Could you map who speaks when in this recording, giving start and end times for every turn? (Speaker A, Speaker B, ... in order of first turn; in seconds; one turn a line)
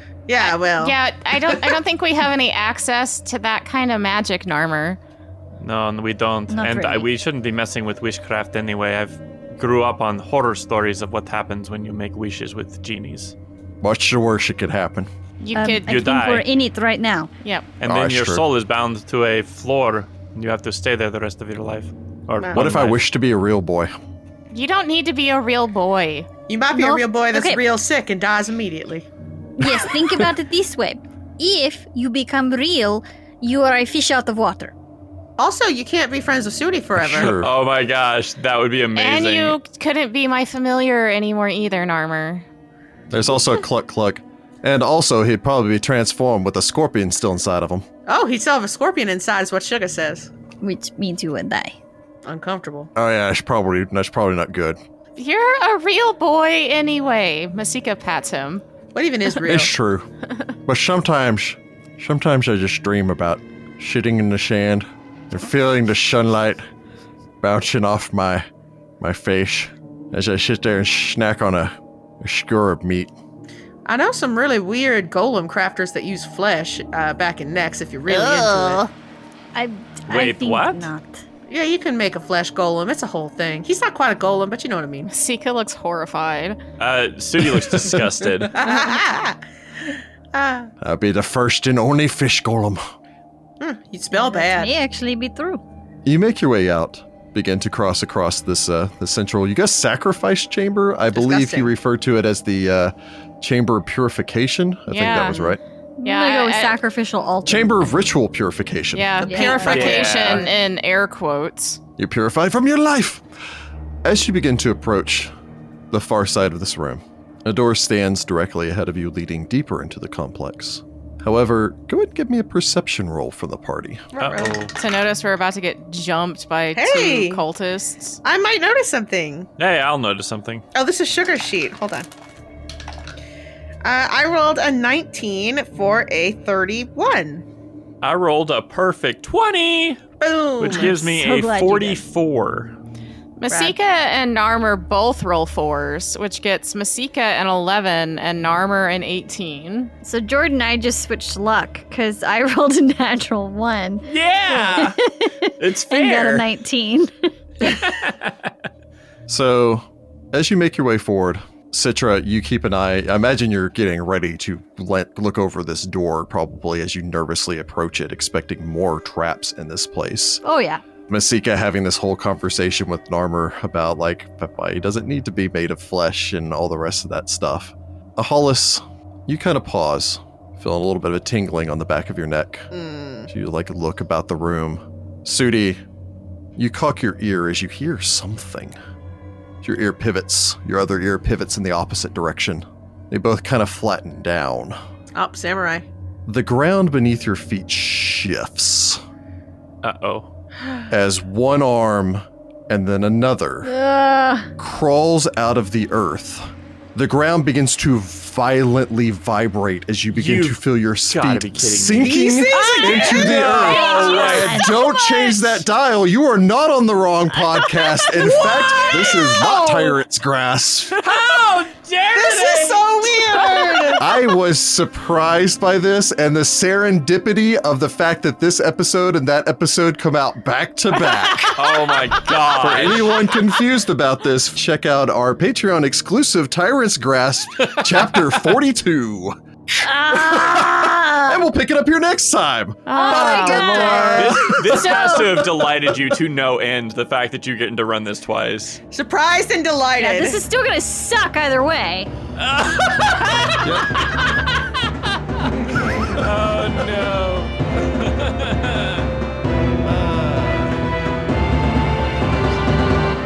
Speaker A: 0.3-1.0
Speaker B: 0.4-5.0
Speaker C: 5.6-13.3
Speaker D: 6.5-7.1
Speaker E: 13.8-15.1
Speaker B: 15.4-15.9
Speaker D: 15.5-17.3
Speaker C: 15.8-16.4
Speaker B: 17.4-17.7
Speaker C: 17.8-23.0
Speaker E: 17.8-18.4
Speaker A: 22.4-22.7
Speaker E: 22.5-23.9
Speaker B: 24.5-26.3
Speaker A: 26.5-29.1
Speaker D: 26.7-27.6
Speaker D: 29.6-34.7
Speaker A: 35.4-37.3
Speaker E: 37.0-37.5
Speaker C: 37.1-39.6
Speaker B: 38.9-42.4
Speaker E: 43.1-47.9
Speaker A: 48.1-50.3
Speaker D: 50.6-51.8
Speaker A: 52.2-52.9
Speaker E: 52.9-54.8
Speaker B: 55.1-58.6
Speaker A: 58.9-59.7
Speaker E: 59.4-60.0
Speaker E: 60.6-66.6
Speaker E: 67.4-68.4
Speaker E: 69.0-73.1
Speaker A: 73.8-78.8
Speaker D: 78.1-78.9
Speaker D: 79.5-81.2
Speaker C: 80.1-80.9
Speaker A: 81.5-85.1
Speaker B: 85.1-86.6
Speaker C: 86.8-88.5
Speaker E: 87.5-88.0
Speaker A: 88.5-89.4
Speaker D: 88.6-88.9
Speaker A: 90.3-90.7
Speaker E: 90.8-92.8
Speaker A: 93.6-94.7
Speaker D: 94.1-95.6
Speaker E: 96.0-105.6
Speaker A: 101.1-101.7
Speaker B: 104.9-105.4
Speaker A: 105.3-105.6
Speaker D: 106.0-107.9
Speaker B: 106.0-106.8
Speaker E: 107.5-109.1
Speaker B: 108.9-111.8
Speaker A: 109.2-110.5
Speaker D: 109.2-109.8
Speaker C: 109.6-110.5
Speaker E: 112.0-113.2
Speaker E: 114.0-115.3
Speaker E: 115.9-124.1
Speaker A: 124.1-124.6
Speaker C: 124.2-124.7
Speaker B: 124.7-128.2
Speaker A: 126.7-127.4
Speaker A: 128.2-129.5
Speaker C: 129.6-130.6
Speaker A: 130.7-132.1
Speaker A: 133.8-137.4
Speaker C: 138.0-140.0
Speaker A: 140.2-140.9
Speaker C: 140.6-142.7
Speaker D: 140.7-142.0
Speaker B: 143.4-149.9
Speaker A: 143.5-143.7
Speaker D: 150.0-157.9
Speaker C: 154.1-156.5
Speaker C: 157.7-158.3
Speaker E: 159.3-170.4
Speaker D: 170.4-170.8
Speaker E: 171.1-182.7
Speaker A: 182.7-183.3
Speaker E: 183.3-185.8
Speaker E: 186.6-188.7
Speaker E: 189.6-194.8
Speaker A: 195.1-195.8
Speaker E: 196.2-199.0
Speaker C: 199.8-200.3
Speaker E: 200.9-203.7
Speaker D: 203.6-204.5
Speaker E: 204.6-221.1
Speaker C: 210.1-214.8
Speaker A: 211.9-213.6
Speaker D: 213.4-215.5
Speaker C: 218.1-219.7
Speaker C: 220.9-224.0
Speaker A: 222.1-224.1
Speaker E: 224.0-231.8
Speaker C: 231.5-233.3
Speaker E: 232.5-239.3
Speaker C: 237.8-238.2
Speaker D: 239.8-241.4
Speaker E: 240.1-244.9
Speaker B: 242.8-244.3
Speaker D: 242.9-245.4
Speaker A: 244.0-244.3
Speaker C: 244.2-248.8
Speaker A: 248.9-250.4
Speaker D: 250.0-252.1
Speaker C: 252.4-254.1
Speaker E: 253.6-254.0
Speaker C: 256.0-259.1
Speaker E: 259.9-260.7